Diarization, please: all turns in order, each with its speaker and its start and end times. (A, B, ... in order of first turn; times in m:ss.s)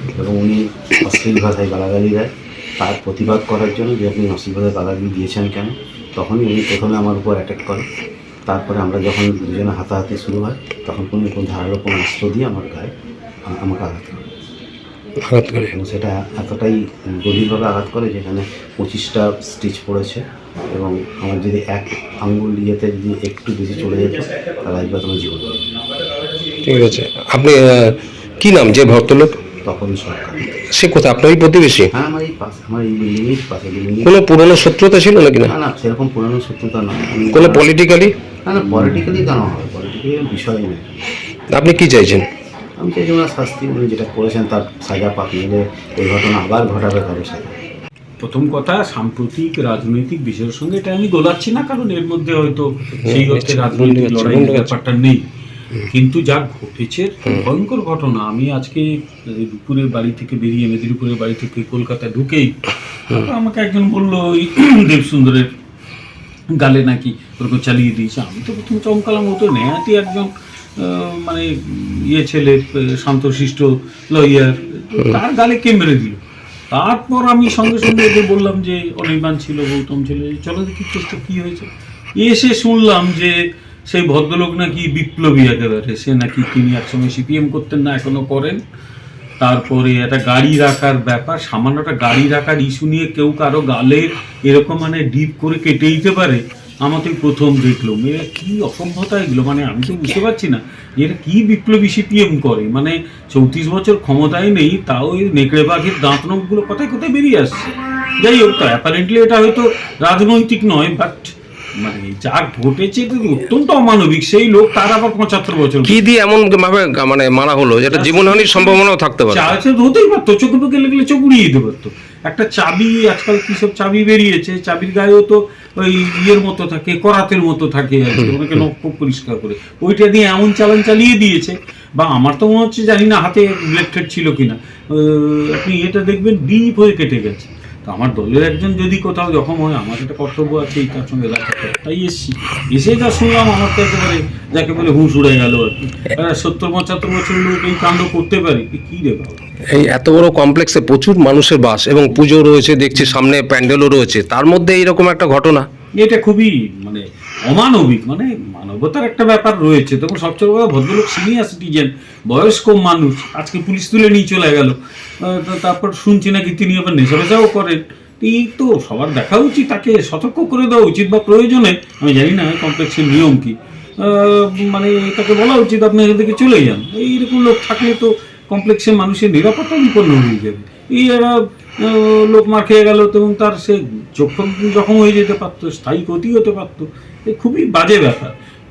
0:00.1-0:07.8 A
0:08.5-0:12.9 A
0:13.5-0:14.3 A
0:15.3-0:15.7 B
0:15.7-0:25.6 A
0:26.6-0:29.4 B
0:29.6-0:30.5 A
0:30.7-0:31.9 B
0:31.9-0:34.2 A
0:34.0-0:35.5 B
0:35.4-0:37.7 A
0:37.3-0:38.1 B
0:38.4-0:41.0 A
0:41.6-0:42.3 B
0:42.8-0:47.6 A
0:48.2-0:55.2 C
0:53.0-0:54.8 B
0:55.9-1:05.5 C
1:06.5-1:28.6 C
1:29.4-1:56.0 C
1:55.8-1:59.6 B
1:57.9-2:29.4 C
2:29.7-2:35.7 B
2:36.0-3:08.3 C